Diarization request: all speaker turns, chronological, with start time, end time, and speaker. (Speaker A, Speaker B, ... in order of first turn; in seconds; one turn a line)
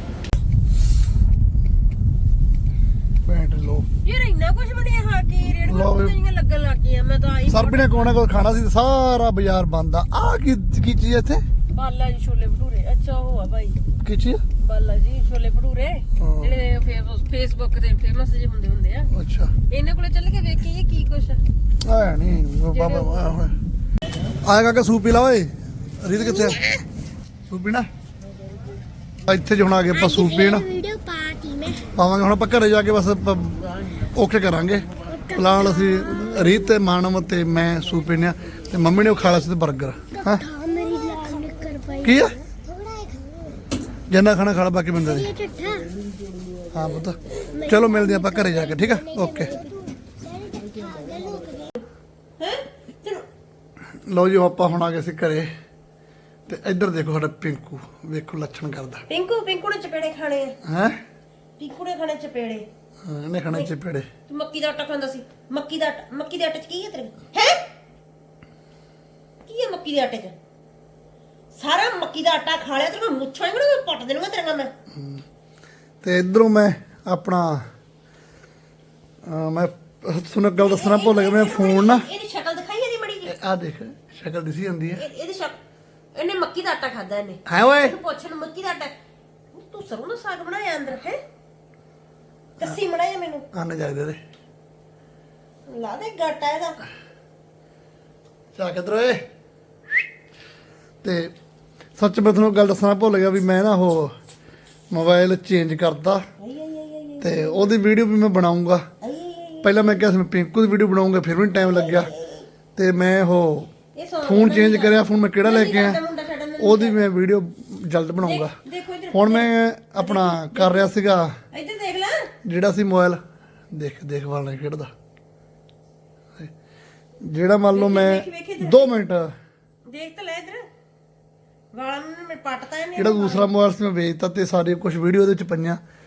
Speaker A: 3.2-3.9
Speaker B: 4.0-8.2
Speaker A: 5.6-6.1
Speaker A: 7.5-11.4
Speaker B: 11.7-13.8
Speaker A: 14.0-14.4
Speaker B: 14.6-19.1
Speaker A: 16.2-16.5
Speaker A: 19.1-19.5
Speaker B: 19.7-21.4
Speaker A: 21.8-23.5
Speaker B: 22.7-23.4
Speaker A: 24.4-26.6
Speaker C: 26.1-26.8
Speaker A: 27.5-27.9
Speaker A: 29.2-30.7
Speaker C: 29.9-31.9
Speaker A: 31.9-40.4
Speaker C: 35.1-36.3
Speaker C: 40.1-43.5
Speaker A: 42.0-42.4
Speaker A: 44.1-45.3
Speaker C: 45.0-45.9
Speaker A: 46.7-49.5
Speaker C: 47.5-51.7
Speaker B: 52.4-53.3
Speaker A: 54.1-55.5
Speaker A: 56.5-59.0
Speaker B: 59.1-60.6
Speaker A: 60.6-61.0
Speaker B: 61.6-62.7
Speaker A: 63.0-64.1
Speaker B: 64.3-67.6
Speaker B: 69.5-70.3
Speaker B: 71.5-74.7
Speaker A: 74.9-75.2
Speaker A: 76.0-77.6
Speaker A: 79.2-82.0
Speaker B: 80.6-83.3
Speaker A: 83.2-85.0
Speaker B: 85.0-85.6
Speaker B: 86.1-88.9
Speaker A: 87.5-88.0
Speaker B: 89.5-91.2
Speaker B: 92.6-93.4
Speaker A: 93.5-94.2
Speaker B: 95.7-96.8
Speaker A: 98.5-99.2
Speaker A: 101.0-101.3
Speaker A: 102.0-104.1
Speaker A: 104.9-106.2
Speaker B: 106.4-107.7
Speaker A: 107.2-108.8
Speaker B: 109.0-110.1
Speaker A: 109.6-112.1
Speaker B: 111.6-112.5
Speaker A: 112.8-113.7
Speaker B: 113.9-117.0
Speaker A: 114.2-116.0
Speaker A: 116.6-118.5
Speaker B: 118.2-120.9
Speaker A: 119.1-121.3
Speaker B: 121.5-122.3
Speaker A: 122.4-123.2
Speaker A: 123.7-124.9
Speaker A: 127.2-129.3
Speaker B: 127.7-128.9
Speaker B: 129.8-130.7
Speaker B: 131.7-133.5
Speaker A: 132.9-135.8